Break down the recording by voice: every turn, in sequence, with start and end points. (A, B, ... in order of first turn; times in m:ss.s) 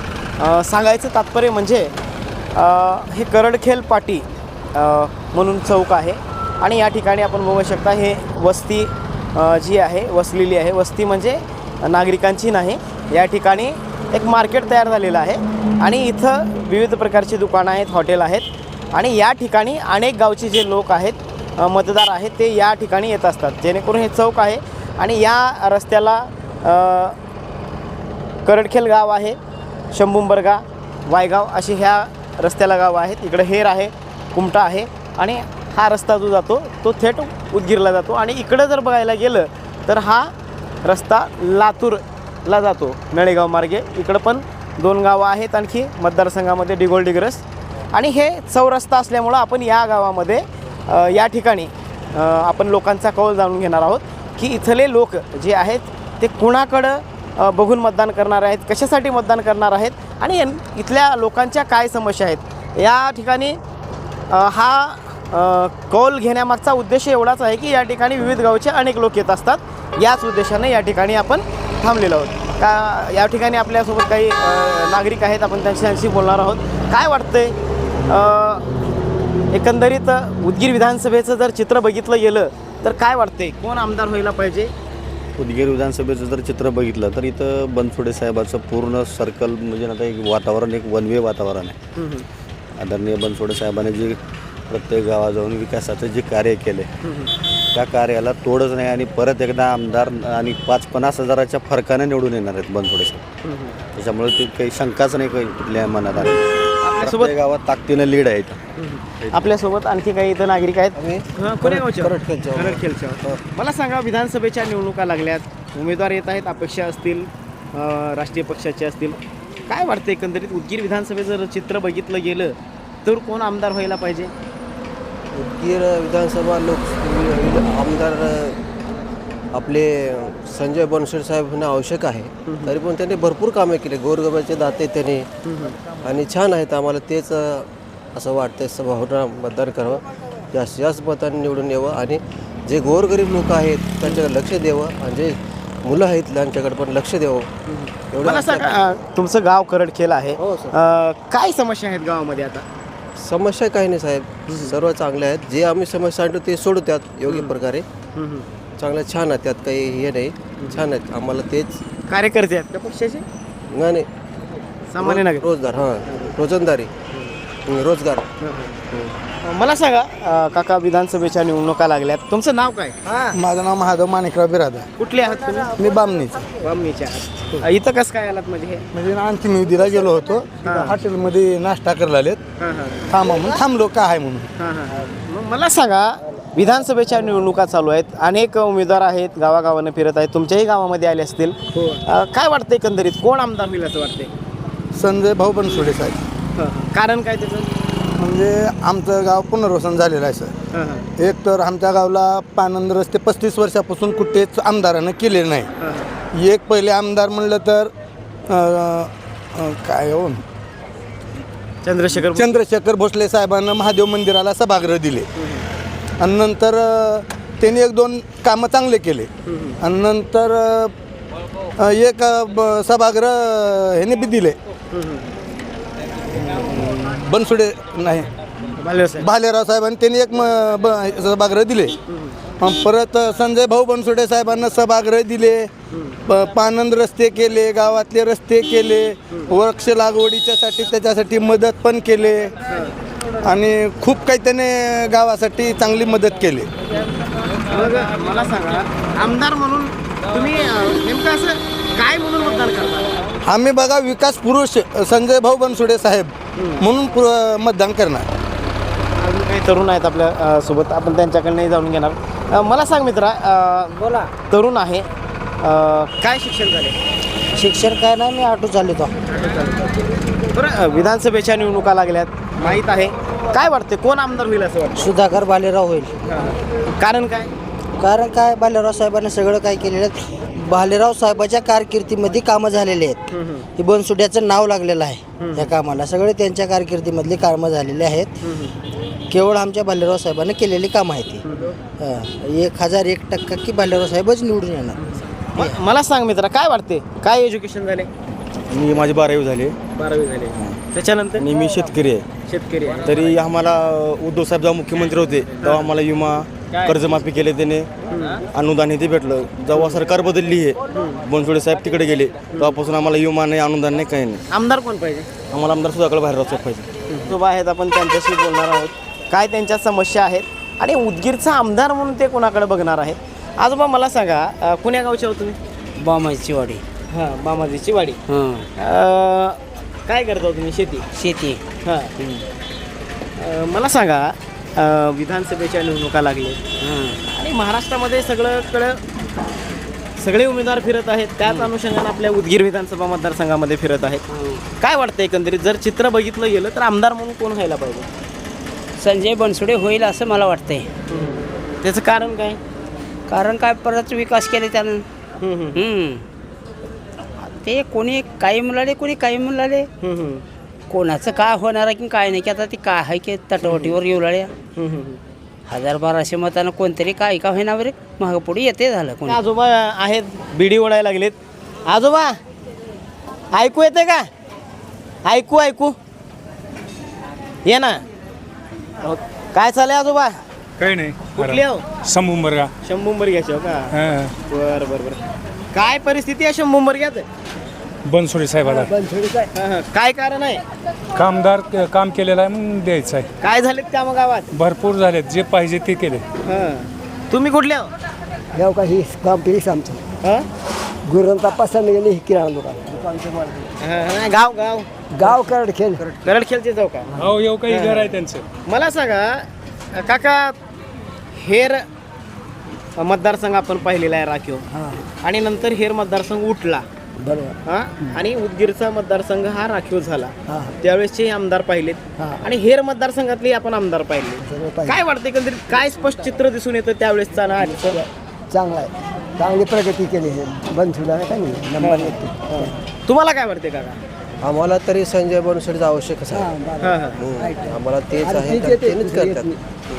0:00.4-0:01.9 A
0:02.5-0:27.2 A
0:28.4-0:29.4 A
0:29.9-0:40.3 A
0:40.8-1:03.6 A
1:04.3-1:17.5 A
1:18.1-1:18.6 A
1:19.5-1:24.7 A
1:25.4-1:31.8 B
1:32.0-1:32.2 A
1:32.8-1:36.9 B
1:37.0-1:37.3 A
1:37.7-1:43.2 B
1:43.4-1:43.8 A
1:43.9-1:48.6 B
1:46.8-1:47.3 A
1:48.8-2:04.3 A
1:49.2-1:49.5 B
1:50.9-1:53.4 C
2:05.3-2:08.6 C
2:09.5-2:15.3 C
2:12.5-2:12.7 A
2:15.5-2:15.8 A
2:16.0-2:20.0 C
2:20.5-2:27.5 C
2:27.7-2:32.6 A
2:28.1-2:28.8 C
2:33.2-2:37.8 C
2:34.5-2:34.7 A
2:37.3-2:37.5 A
2:38.2-2:38.5 A
2:38.8-2:41.8 C
2:42.1-2:43.2 A
2:43.7-2:44.1 C
2:44.9-2:45.5 A
2:45.0-2:46.9 C
2:47.6-2:48.2 C
2:48.4-2:48.8 A
2:49.4-2:53.0 A
2:53.3-2:54.9 D
2:55.0-2:55.7 A
2:55.8-2:56.4 D
2:56.6-2:58.8 A
2:58.9-3:02.4 D
3:00.6-3:01.0 A
3:02.6-3:03.1 A
3:03.1-3:04.5 D
3:04.6-3:14.3 A
3:14.9-3:16.2 D
3:16.6-3:17.7 A
3:18.2-3:20.5 D
3:20.7-3:21.1 A
3:21.2-3:25.7 D
3:25.8-3:26.1 A
3:26.4-3:27.9 D
3:28.5-3:30.4 D
3:31.8-3:32.6 A
3:32.3-3:35.3 D
3:35.4-3:35.6 A
3:36.2-3:39.3 D
3:39.4-3:39.8 A
3:39.8-3:40.9 D
3:41.8-3:44.6 D
3:44.9-3:45.3 A
3:46.8-3:48.3 D
3:48.8-3:49.3 A
3:49.2-3:52.0 D
3:52.1-3:52.4 A
3:52.6-3:55.7 D
3:55.9-3:56.2 A
3:56.3-4:02.5 D
4:02.7-4:02.9 A
4:03.4-4:06.7 D
4:07.6-4:13.1 A
4:13.4-4:18.2 D
4:16.6-4:16.8 A
4:19.2-4:25.1 A
4:25.6-4:27.0 A
4:27.5-4:29.1 E
4:29.3-4:29.7 A
4:30.5-4:35.1 A
4:34.9-4:36.1 E
4:36.2-4:37.5 A
4:38.0-4:43.2 E
4:43.3-4:43.6 A
4:43.7-4:48.3 E
4:45.4-4:45.7 A
4:48.4-4:48.8 A
4:49.3-4:51.4 E
4:51.4-4:51.8 A
4:52.0-4:55.0 E
4:55.0-4:58.1 A
4:58.7-4:59.7 F
4:59.9-5:01.5 A
5:01.4-5:02.2 F
5:02.5-5:03.1 A
5:03.0-5:07.9 F
5:05.6-5:05.9 A
5:06.7-5:07.0 A
5:08.1-5:08.4 A
5:08.5-5:14.4 F
5:09.7-5:10.0 A
5:10.9-5:11.2 A
5:12.5-5:12.8 A
5:14.5-5:15.3 A
5:15.5-5:16.9 F
5:17.1-5:25.6 A
5:26.0-5:26.8 G
5:27.1-5:28.2 A
5:28.3-5:28.7 G
5:28.8-5:31.0 A
5:31.1-5:31.6 G
5:31.8-5:32.1 A
5:32.2-5:32.4 G
5:33.4-5:36.6 A
5:36.8-5:37.2 G
5:37.3-5:39.0 A
5:40.2-5:44.2 A
5:44.3-5:44.6 G
5:44.8-5:48.1 A
5:49.0-5:50.9 G
5:51.1-5:52.6 A
5:53.3-5:55.0 G
5:55.4-5:55.8 A
5:55.7-5:56.2 G
5:57.4-5:59.9 G
6:00.0-6:00.4 A
6:00.9-6:04.5 G
6:03.6-6:03.9 A
6:04.8-6:05.2 A
6:05.7-6:09.4 G
6:09.3-6:12.4 A
6:13.5-6:14.3 A
6:15.2-6:16.0 A
6:17.6-6:18.0 A
6:19.0-6:20.4 A
6:20.8-6:21.6 D
6:21.3-6:21.8 A
6:22.1-6:22.7 D
6:22.8-6:23.9 A
6:23.9-6:24.3 D
6:24.5-6:25.2 A
6:25.7-6:27.3 A
6:28.1-6:28.9 D
6:28.7-6:29.4 H
6:29.5-6:30.6 A
6:31.2-6:33.3 D
6:33.4-6:34.5 A
6:34.5-6:36.2 D
6:36.4-6:37.9 A
6:38.6-6:40.0 H
6:41.1-6:43.6 H
6:43.8-6:44.9 A
6:45.2-6:46.0 H
6:46.2-6:47.1 A
6:47.2-6:48.4 D
6:47.7-6:50.6 A
6:51.3-6:51.8 A
6:53.0-6:54.6 A
6:55.2-6:56.8 A
6:57.3-6:57.5 H
6:57.6-7:08.0 A
7:04.4-7:04.9 H
7:08.0-7:12.7 H
7:11.8-7:14.0 A
7:14.4-7:16.5 C
7:16.8-7:17.2 A
7:17.2-7:19.6 C
7:18.3-7:19.5 H